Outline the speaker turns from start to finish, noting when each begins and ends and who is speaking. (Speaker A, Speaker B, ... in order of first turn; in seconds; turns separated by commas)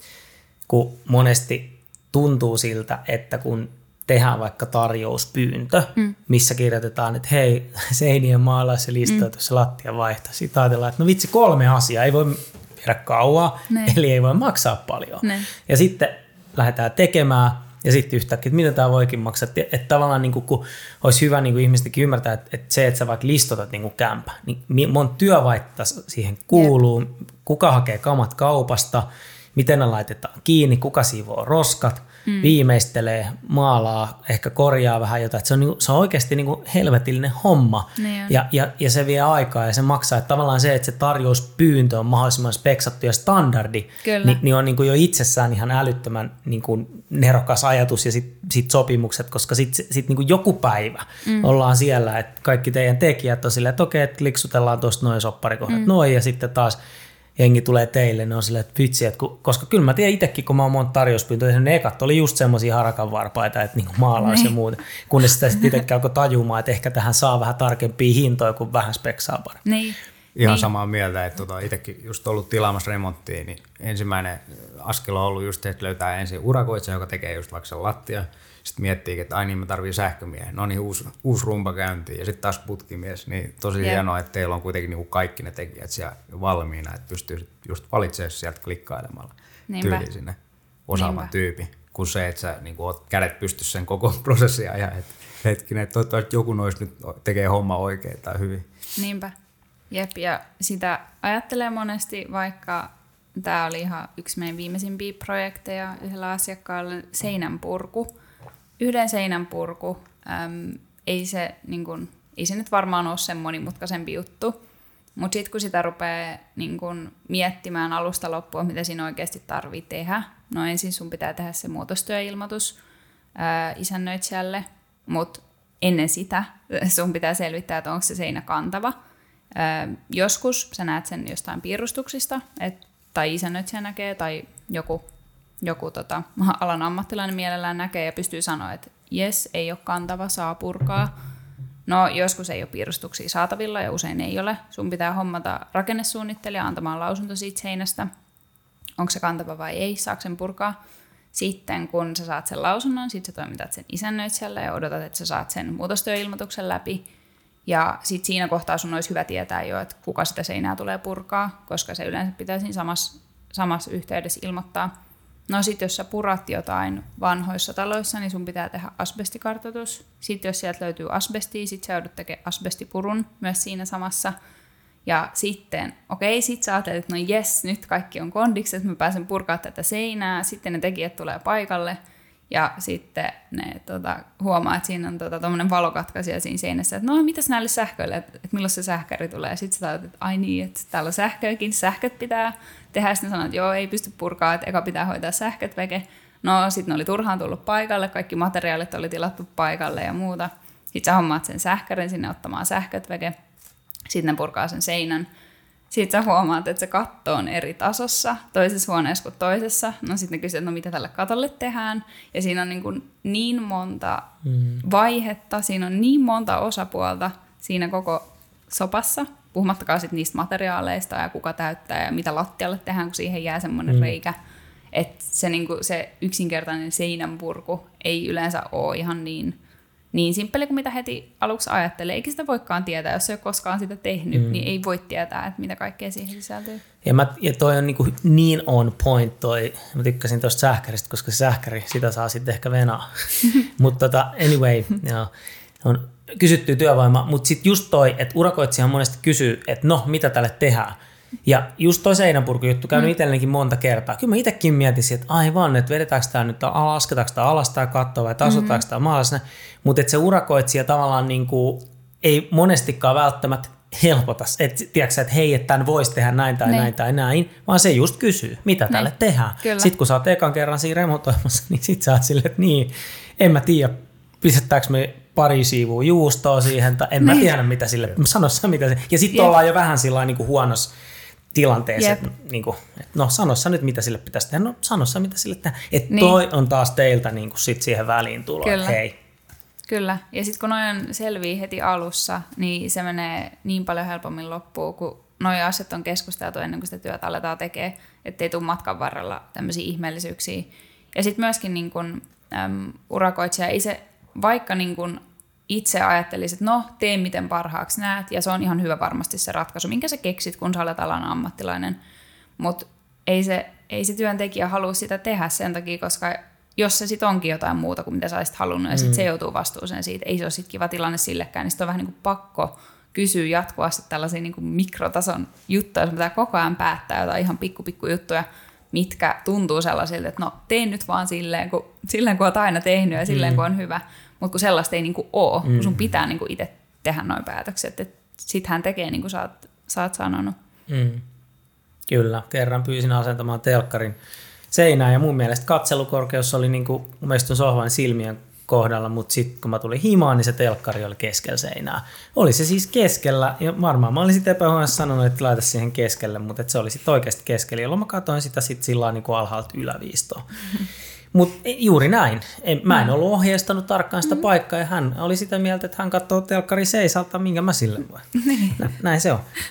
Speaker A: 0.7-56.8, Speaker B: 9.0-9.3, Speaker B: 13.7-14.0, Speaker B: 15.2-15.5, Speaker B: 32.2-32.5, Speaker B: 38.0-38.4, Speaker B: 44.0-44.4, Speaker B: 51.2-51.5, Speaker A: 57.4-69.6, Speaker B: 64.2-64.5, Speaker B: 69.6-70.7, Speaker C: 70.3-98.7, Speaker B: 89.7-90.1, Speaker B: 90.9-91.3, Speaker B: 99.0-99.3, Speaker B: 99.9-108.1, Speaker B: 108.8-114.6, Speaker B: 115.2-122.8, Speaker B: 123.3-128.9, Speaker B: 129.5-135.0, Speaker B: 135.6-141.1, Speaker B: 141.9-148.1, Speaker B: 149.0-150.8, Speaker B: 151.3-157.0, Speaker B: 157.7-164.9, Speaker B: 165.5-174.3, Speaker B: 175.0-182.0, Speaker B: 182.5-203.3, Speaker B: 204.1-205.3, Speaker B: 205.9-214.3, Speaker A: 214.4-214.8, Speaker B: 214.8-224.3, Speaker A: 223.9-224.1, Speaker B: 224.9-229.6, Speaker B: 230.1-236.8, Speaker A: 234.3-234.6, Speaker A: 237.0-245.3, Speaker A: 245.8-280.9, Speaker B: 258.4-258.8, Speaker B: 266.6-266.9, Speaker B: 269.6-269.9, Speaker B: 277.2-277.5, Speaker A: 281.5-289.1, Speaker B: 282.0-282.2, Speaker B: 286.1-286.4, Speaker B: 288.6-289.0, Speaker B: 289.9-312.0, Speaker B: 312.6-340.5, Speaker A: 318.9-319.2, Speaker A: 333.3-333.6, Speaker A: 335.6-336.0, Speaker A: 340.9-341.2, Speaker A: 342.1-344.1, Speaker A: 344.7-360.5, Speaker A: 361.3-369.4, Speaker B: 368.4-368.7